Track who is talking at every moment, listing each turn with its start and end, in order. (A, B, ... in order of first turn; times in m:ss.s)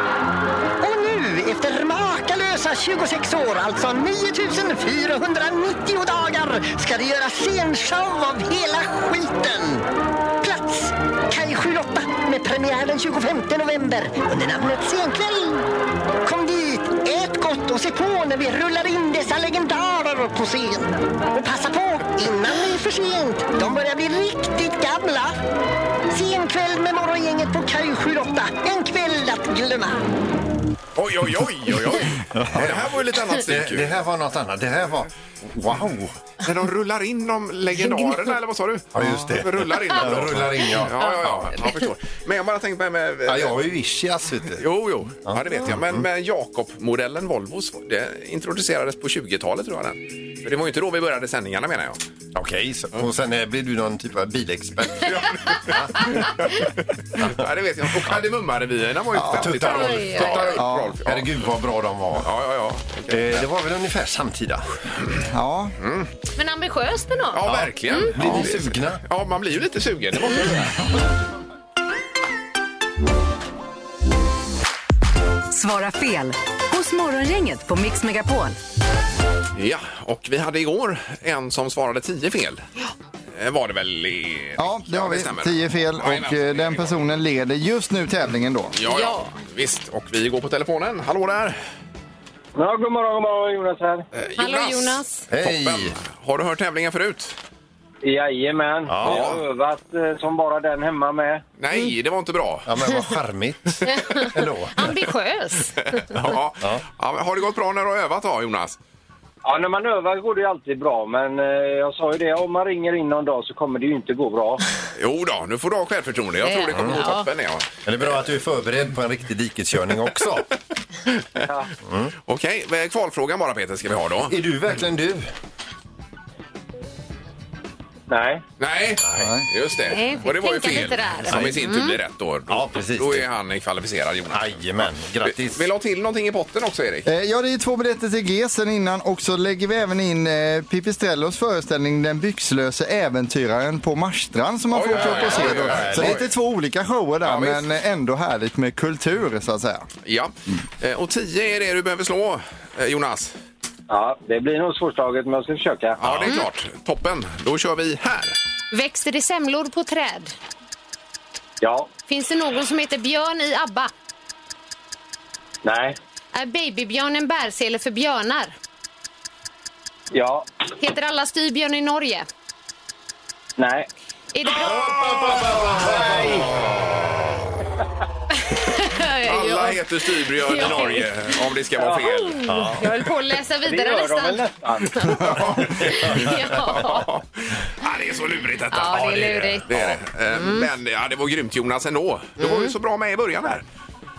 0:00.8-0:09.8 A
0:10.4-0:15.6 A
0:16.2-0:25.4 A
0:26.1-0:30.0 A
0:31.0-0:34.0 B
0:32.4-0:32.9 C
0:33.4-0:36.2 C
0:36.4-0:43.6 B
0:38.9-0:41.6 C
0:41.0-0:41.7 D
0:43.3-0:44.6 C
0:44.6-0:52.0 B
0:45.2-0:46.1 C
0:52.3-0:56.4 C
0:55.1-0:56.6 B
0:57.2-1:01.3 B
0:59.1-1:02.3 C
0:59.2-0:59.5 E
0:59.6-1:00.5 D
1:00.6-1:01.0 E
1:02.2-1:03.5 B
1:03.1-1:04.6 C
1:05.3-1:05.8 E
1:05.8-1:06.1 B
1:06.4-1:08.2 D
1:07.3-1:10.8 B
1:07.5-1:09.0 C
1:15.5-1:18.6 F
1:19.6-1:22.6 B
1:23.4-1:27.0 B
1:24.6-1:28.8 E
1:28.7-1:31.6 B
1:28.9-1:29.3 D
1:32.6-1:34.1 G
1:34.2-1:37.4 B
1:34.4-1:35.2 D
1:35.3-1:36.0 C
1:38.0-1:41.4 G
1:38.9-1:39.3 C
1:39.0-1:39.4 B
1:41.6-1:42.7 B
1:42.7-1:45.0 C
1:43.9-1:46.0 D
1:45.9-1:48.8 B
1:49.4-1:54.6 G
1:55.0-1:58.2 B
1:56.4-1:57.3 D
1:57.8-2:00.5 C
2:01.8-2:02.1 C
2:02.3-2:04.3 B
2:04.3-2:05.2 C
2:08.1-2:08.4 G
2:08.6-2:14.6 B
2:09.2-2:09.5 E
2:09.9-2:12.0 D
2:12.5-2:13.3 C
2:14.3-2:15.7 C
2:15.2-2:17.1 B
2:17.1-2:29.9 E
2:24.7-2:26.3 B
2:24.9-2:26.2 C
2:27.2-2:27.6 B
2:30.0-2:33.3 B
2:33.9-2:36.0 G
2:36.0-2:38.4 B
2:38.7-2:40.3 D
2:41.6-2:41.9 G
2:42.1-2:43.9 D
2:45.6-2:46.0 G
2:46.3-2:48.5 D
2:50.1-2:50.5 G
2:50.8-2:52.3 D
2:53.6-2:53.9 G
2:54.3-2:54.8 D
2:54.6-2:57.2 C
2:55.8-2:56.5 G
2:58.4-3:01.4 D
2:59.2-3:02.4 B
3:01.8-3:02.1 G
3:02.1-3:07.1 D
3:02.5-3:02.9 C
3:03.7-3:05.0 G
3:05.1-3:13.6 B
3:08.7-3:09.7 D
3:09.7-3:10.0 C
3:10.3-3:10.7 D
3:12.4-3:12.7 D